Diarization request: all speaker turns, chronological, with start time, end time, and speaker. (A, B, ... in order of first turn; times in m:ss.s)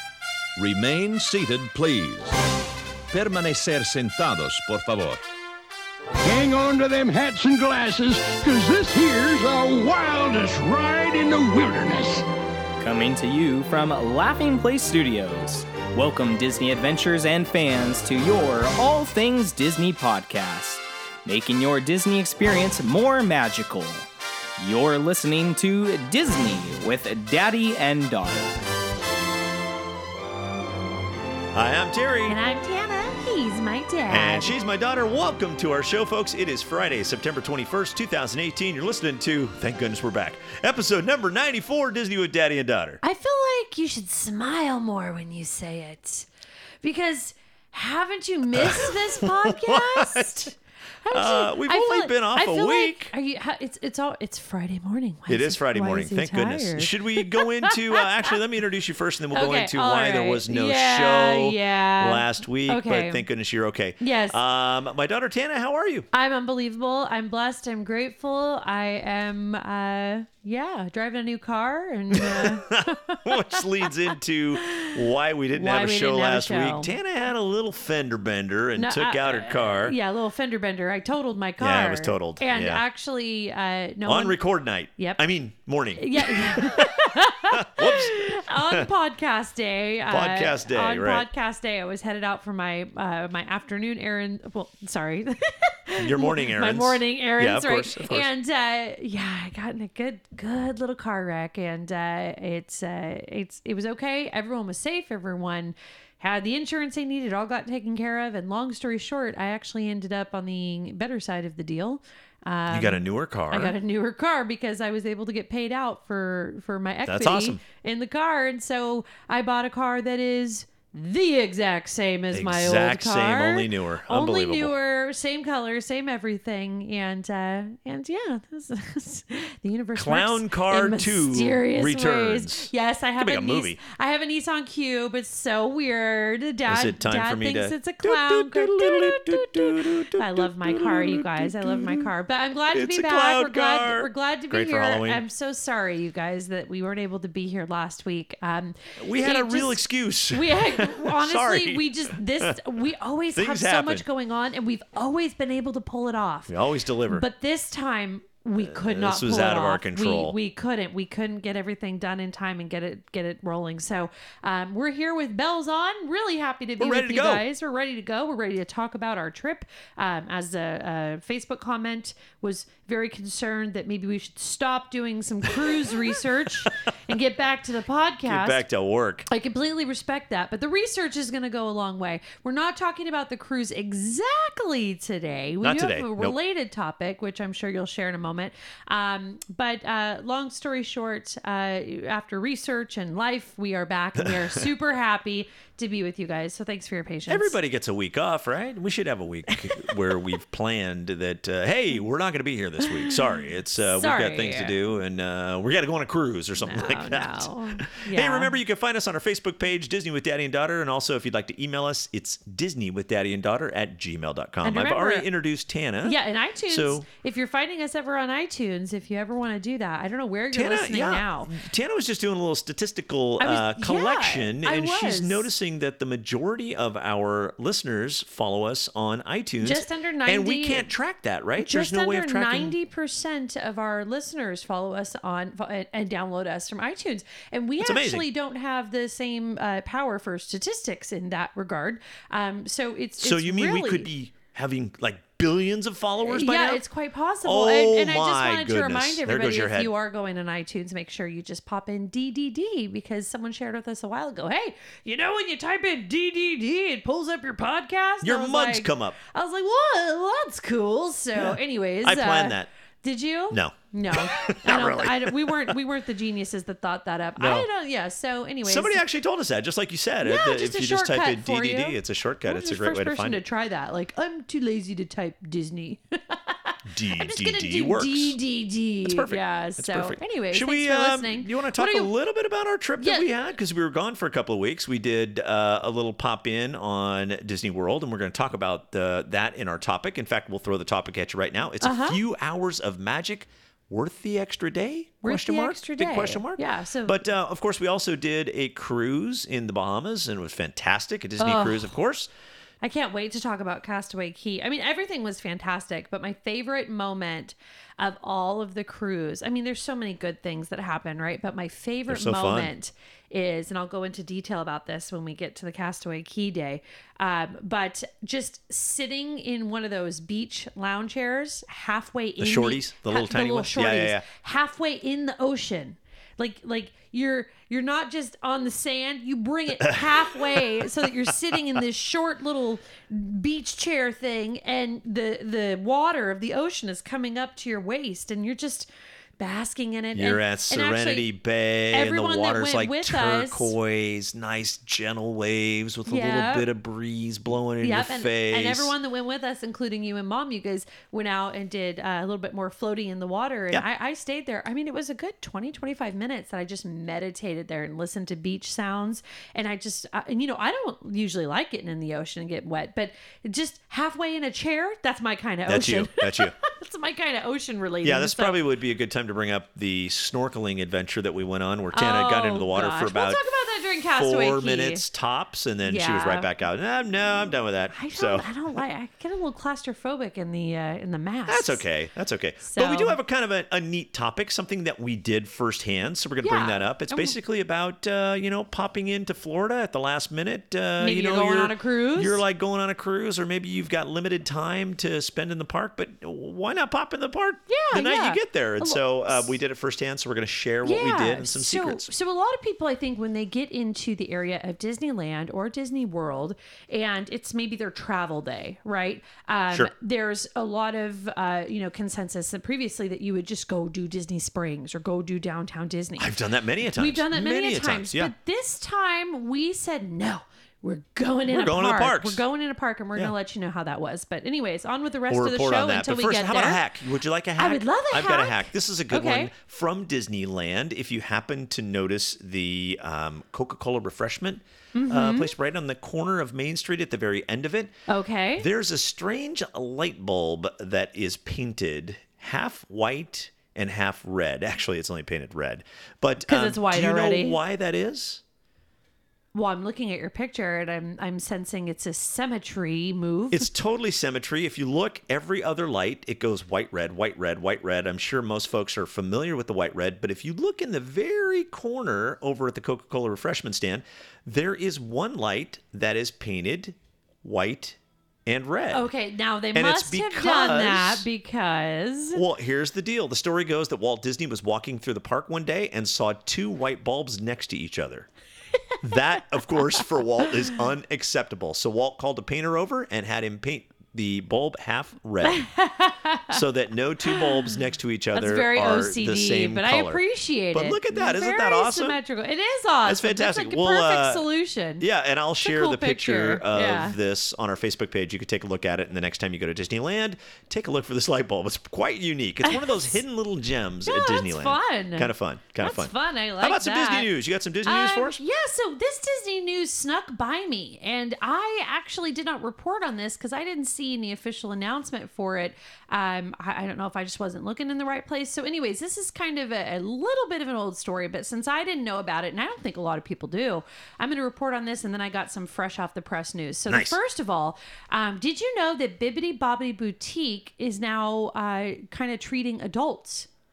0:00.6-0:02.3 A
0:03.1-0:05.2 A
0:06.2-0:12.2 B
0:12.8-0:24.1 C
0:24.6-0:28.6 C
0:31.5-0:32.4 D
0:32.2-0:34.5 E
0:34.1-0:43.0 D
0:43.0-0:46.3 E
0:46.8-0:58.3 E
0:48.5-0:50.5 D
0:51.1-0:53.1 D
0:55.3-1:06.1 D
0:59.3-1:03.2 E
1:04.0-1:04.4 E
1:06.1-1:14.9 E
1:12.1-1:20.0 D
1:15.5-1:16.9 E
1:18.8-1:24.4 E
1:21.6-1:22.8 D
1:24.0-1:28.9 D
1:26.0-2:36.5 E
1:30.1-1:31.2 D
1:36.0-1:38.3 D
1:52.7-1:53.8 D
1:57.0-1:57.6 D
2:02.3-2:04.7 D
2:09.9-2:13.8 D
2:16.7-2:22.1 D
2:22.7-2:25.2 D
2:29.0-2:32.6 D
2:33.3-2:34.0 D
2:36.5-2:37.2 D
2:37.1-2:58.6 E
2:38.6-2:40.4 D
2:46.8-2:47.4 D
2:55.6-2:56.1 D
2:58.2-2:59.3 D
2:59.3-3:17.6 E
3:05.6-3:06.4 D
3:14.2-3:14.6 D
3:17.3-3:37.1 D
3:19.5-3:19.9 E
3:23.8-3:24.8 E
3:26.6-3:28.5 E
3:34.6-3:35.3 E
3:36.0-3:41.5 E
3:40.5-3:52.7 D
3:43.4-3:45.5 E
3:49.6-3:50.9 E
3:51.6-4:04.1 E
3:57.8-3:58.3 D
4:03.2-4:06.8 D
4:06.2-4:29.0 E
4:07.4-4:09.9 D
4:18.2-4:19.2 D
4:21.4-4:22.7 D
4:23.5-4:25.8 D
4:27.4-4:27.7 D
4:28.6-4:33.4 D
4:30.2-4:42.1 E
4:36.8-4:38.4 D
4:39.0-5:02.3 D
4:43.0-4:43.3 E
4:51.8-4:52.2 E
4:55.2-4:57.3 E
5:01.4-5:01.9 E
5:02.8-5:38.9 E
5:12.1-5:12.7 D
5:22.4-5:24.2 D
5:29.8-5:31.6 D
5:39.4-5:41.3 E
5:40.1-5:48.9 D
5:41.9-5:43.7 E
5:46.1-5:46.7 E
5:47.8-6:08.6 E
6:05.7-6:06.6 D
6:08.0-6:13.4 D
6:11.9-6:15.0 E
6:14.1-6:18.8 D
6:15.8-6:16.5 E
6:17.9-6:21.8 E
6:21.5-6:42.1 D
6:22.6-6:23.2 E
6:26.4-6:27.4 E
6:31.0-6:32.4 E
6:37.7-6:39.5 E
6:40.8-7:06.8 E
6:56.2-6:58.3 D
7:01.5-7:02.4 D
7:05.3-7:17.9 D
7:07.6-7:09.5 E
7:14.9-7:15.5 E
7:18.1-7:18.7 E
7:18.6-7:28.4 D
7:26.4-7:27.6 E
7:29.5-7:33.7 E
7:33.5-7:49.1 D
7:48.9-7:52.4 E
7:49.7-7:51.2 D
7:52.3-7:58.3 D
7:59.0-8:05.6 D
8:05.4-8:06.6 E
8:06.5-8:10.2 D
8:07.2-8:07.7 E
8:08.3-8:15.0 E
8:10.7-8:12.2 D
8:13.0-8:14.4 D
8:15.0-8:28.4 D
8:15.6-8:17.2 E
8:22.6-8:23.1 E
8:24.0-8:27.3 E
8:27.8-8:53.5 E
8:46.9-8:47.2 D